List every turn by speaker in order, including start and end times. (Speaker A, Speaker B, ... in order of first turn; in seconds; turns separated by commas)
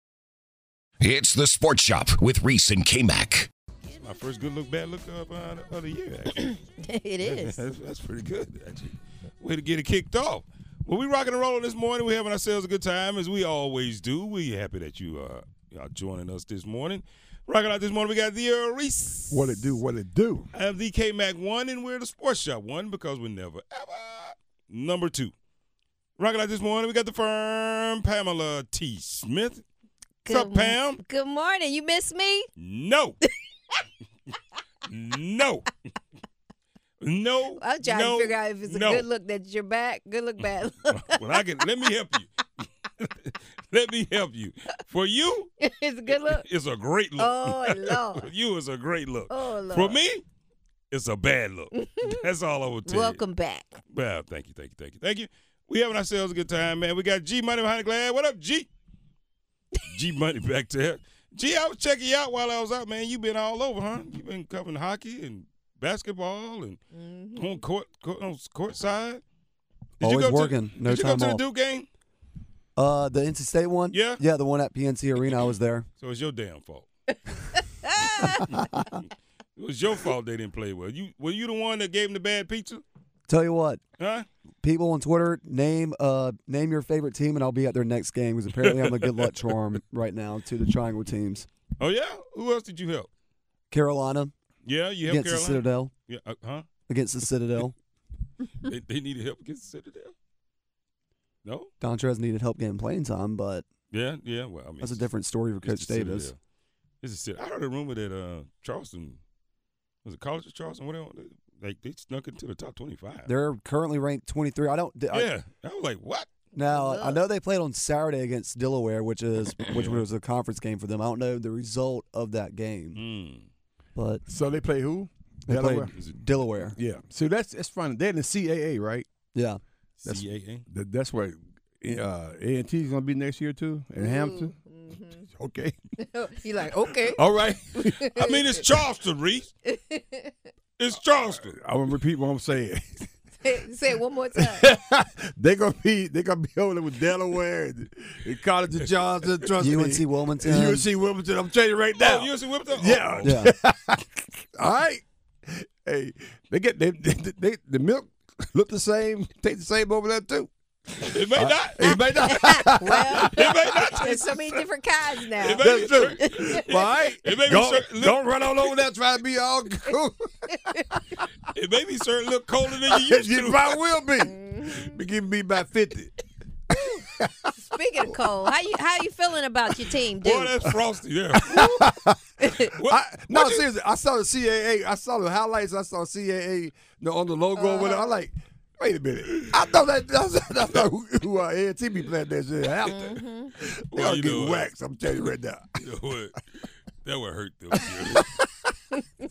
Speaker A: 1.0-3.5, Speaker B: 4.0-6.5, Speaker C: 6.4-7.6, Speaker B: 7.2-19.8, Speaker D: 19.3-20.5, Speaker B: 20.5-25.3, Speaker B: 26.2-29.6, Speaker C: 30.2-32.5, Speaker B: 30.3-31.0, Speaker B: 32.6-33.2, Speaker B: 34.9-35.7, Speaker B: 37.0-39.0, Speaker C: 37.6-41.2, Speaker B: 40.9-42.3, Speaker B: 43.0-45.5, Speaker C: 45.6-46.4, Speaker B: 46.1-50.2, Speaker C: 47.2-48.3, Speaker C: 49.3-50.0, Speaker B: 50.9-53.2, Speaker C: 51.7-52.1, Speaker C: 52.9-53.8, Speaker B: 53.9-58.7, Speaker B: 59.8-66.8, Speaker C: 66.9-67.6, Speaker B: 67.3-69.2, Speaker B: 70.0-71.9, Speaker E: 70.0-71.4, Speaker E: 72.8-75.9, Speaker B: 73.9-74.2, Speaker B: 76.0-76.9, Speaker C: 77.8-78.6, Speaker E: 78.2-78.8, Speaker B: 79.5-82.8, Speaker E: 83.3-83.8, Speaker B: 84.0-84.2, Speaker E: 84.6-91.5, Speaker B: 88.6-89.3, Speaker B: 91.8-93.1, Speaker E: 93.7-94.3, Speaker B: 94.6-96.7, Speaker E: 95.0-95.9, Speaker E: 96.9-97.7, Speaker B: 98.6-100.1, Speaker B: 101.4-101.7, Speaker E: 101.8-103.6, Speaker B: 103.9-105.1, Speaker E: 104.8-106.3, Speaker B: 105.6-106.4, Speaker B: 107.0-109.2, Speaker B: 110.0-113.3, Speaker E: 113.2-115.3, Speaker B: 115.1-116.3, Speaker E: 116.5-123.0, Speaker C: 116.6-117.2, Speaker B: 119.7-120.0, Speaker B: 122.9-123.5, Speaker E: 124.0-124.2, Speaker D: 124.3-125.9, Speaker E: 125.5-126.8, Speaker D: 126.8-129.1, Speaker E: 129.3-129.6, Speaker B: 130.0-130.6, Speaker D: 130.0-134.5, Speaker C: 134.0-135.3, Speaker D: 135.3-135.8, Speaker C: 136.0-138.4, Speaker D: 137.1-138.0, Speaker B: 137.9-139.5, Speaker C: 139.6-140.3, Speaker B: 140.8-141.6, Speaker D: 141.2-143.1, Speaker C: 143.4-144.7, Speaker D: 144.4-160.5, Speaker E: 149.6-150.8, Speaker B: 152.0-153.3, Speaker E: 153.2-153.5, Speaker B: 161.1-162.3, Speaker D: 161.3-164.6, Speaker C: 161.8-166.6, Speaker B: 163.1-164.1, Speaker D: 165.4-170.2, Speaker B: 165.4-168.2, Speaker C: 170.6-170.8, Speaker B: 171.5-173.8, Speaker D: 172.8-176.1, Speaker C: 174.2-174.9, Speaker D: 176.7-177.5, Speaker C: 177.6-180.5, Speaker B: 180.2-181.8, Speaker D: 181.3-182.2, Speaker C: 181.5-181.8, Speaker C: 182.4-182.7, Speaker B: 182.7-183.6, Speaker D: 182.8-195.8, Speaker C: 187.6-188.1, Speaker C: 192.9-193.5, Speaker B: 193.9-194.7, Speaker B: 195.8-196.3, Speaker B: 197.0-198.3, Speaker D: 197.8-198.4